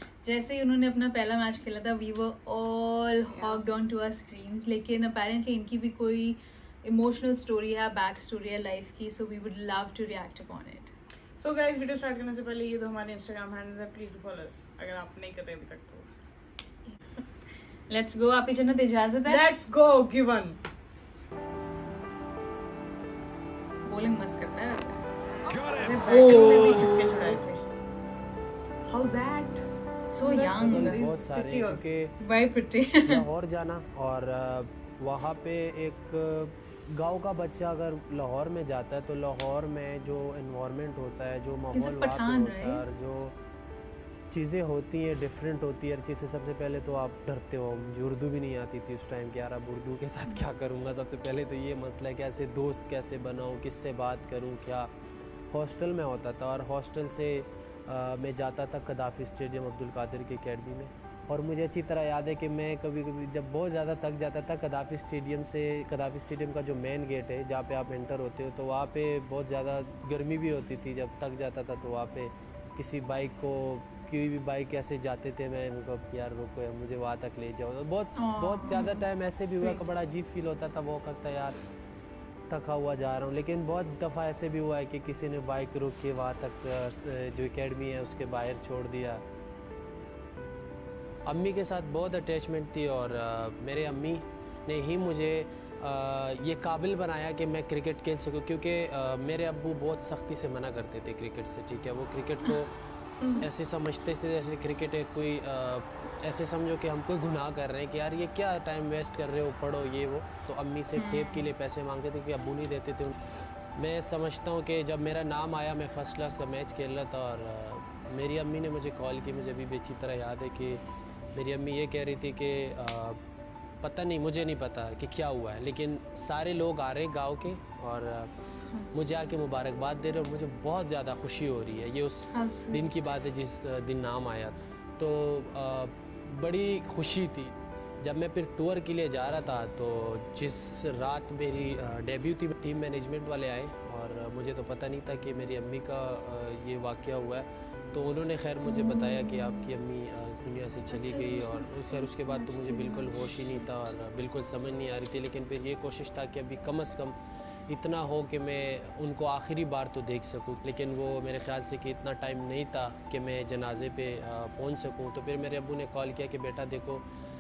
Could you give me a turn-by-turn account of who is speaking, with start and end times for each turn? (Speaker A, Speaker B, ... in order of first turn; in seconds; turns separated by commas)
Speaker A: 0.2-10.9, Speaker B: 3.3-3.8, Speaker B: 11.4-16.1, Speaker A: 17.9-19.4, Speaker B: 19.2-20.6, Speaker A: 23.8-27.4, Speaker B: 25.8-27.6, Speaker B: 28.9-29.6, Speaker A: 30.1-31.1, Speaker B: 30.2-31.9, Speaker C: 30.5-32.1, Speaker A: 32.2-33.2, Speaker C: 33.0-43.4, Speaker A: 41.7-42.8, Speaker C: 44.3-54.9, Speaker C: 55.5-81.6, Speaker A: 78.2-79.8, Speaker C: 82.5-89.2, Speaker C: 91.2-102.7, Speaker C: 103.3-113.1, Speaker A: 110.9-111.5, Speaker C: 113.8-120.8, Speaker C: 121.3-123.2, Speaker C: 123.8-128.3, Speaker C: 128.9-157.2, Speaker A: 132.3-133.1, Speaker A: 148.7-149.8, Speaker B: 150.9-151.9, Speaker A: 151.9-153.7, Speaker C: 157.7-167.0